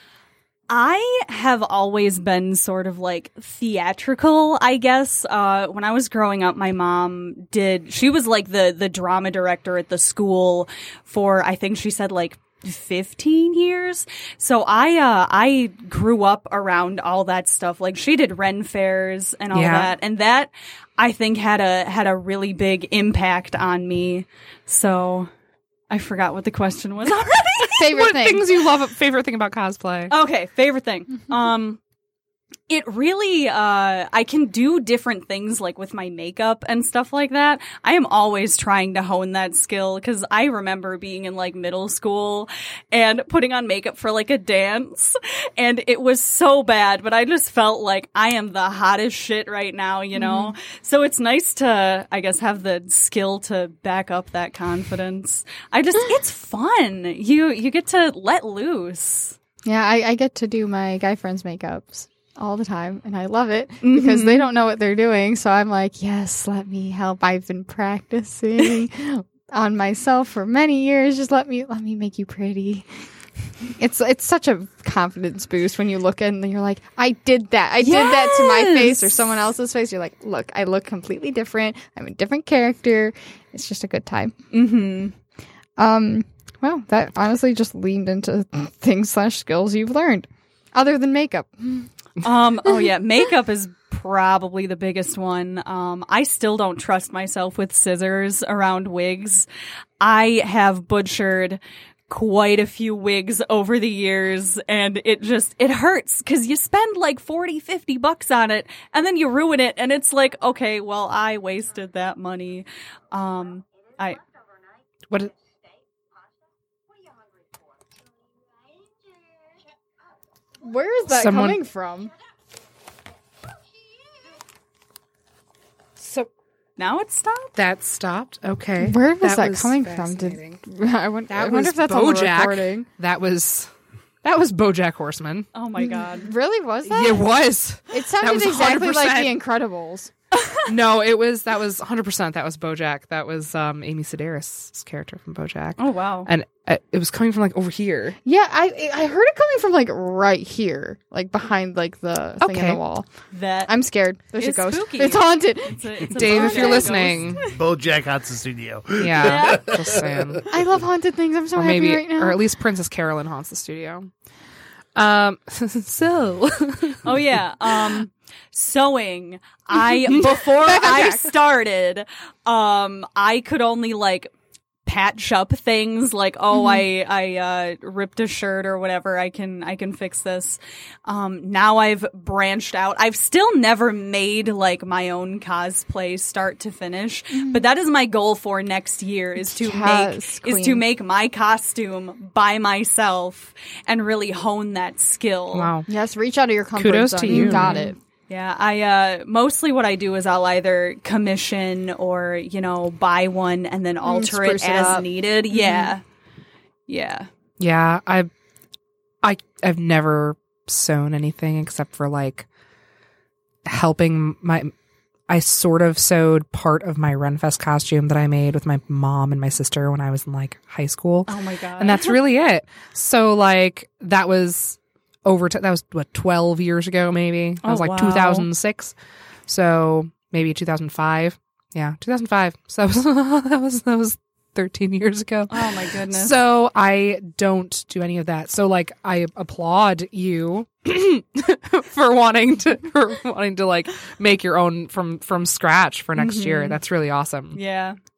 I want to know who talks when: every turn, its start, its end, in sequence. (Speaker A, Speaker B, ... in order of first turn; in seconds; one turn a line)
Speaker A: 0.7-25.3
Speaker B: 19.5-19.9
Speaker A: 25.9-27.9
Speaker C: 27.8-28.5
Speaker B: 27.9-30.1
Speaker A: 30.1-31.8
Speaker A: 32.7-59.4
Speaker C: 50.1-50.5
Speaker C: 59.6-72.9
Speaker A: 63.8-64.5
Speaker C: 73.8-84.3
Speaker A: 77.8-79.2
Speaker A: 84.5-85.1
Speaker C: 85.8-91.9
Speaker A: 92.2-99.5
Speaker A: 100.0-114.2
Speaker C: 120.6-122.1
Speaker B: 121.1-121.6
Speaker B: 126.0-126.3
Speaker A: 126.8-127.5
Speaker B: 127.6-130.6
Speaker C: 128.8-132.9
Speaker B: 131.3-133.7
Speaker B: 134.2-135.5
Speaker A: 135.5-136.3
Speaker C: 135.8-137.3
Speaker B: 136.8-139.4
Speaker C: 137.9-140.1
Speaker B: 140.7-148.2
Speaker A: 145.8-146.3
Speaker C: 148.2-153.1
Speaker B: 152.4-152.8
Speaker A: 153.3-153.7
Speaker C: 153.7-157.1
Speaker A: 154.4-157.5
Speaker B: 156.1-157.4
Speaker D: 157.5-160.0
Speaker B: 159.0-160.5
Speaker A: 159.2-159.7
Speaker C: 160.5-162.4
Speaker B: 161.6-164.1
Speaker B: 164.9-167.2
Speaker A: 167.0-174.3
Speaker B: 170.1-171.3
Speaker A: 174.8-195.7
Speaker C: 176.5-176.8
Speaker C: 187.3-187.6
Speaker C: 189.4-190.8
Speaker B: 195.5-195.9
Speaker C: 195.9-198.0
Speaker B: 196.8-197.8
Speaker A: 197.3-206.0
Speaker C: 204.0-205.9
Speaker A: 206.9-207.3
Speaker B: 207.6-208.3
Speaker B: 209.2-212.5
Speaker B: 213.7-214.7
Speaker B: 215.3-228.9
Speaker A: 221.3-222.2
Speaker A: 227.6-228.5
Speaker B: 229.5-247.6
Speaker A: 235.5-236.4
Speaker A: 246.2-246.8
Speaker A: 247.5-248.0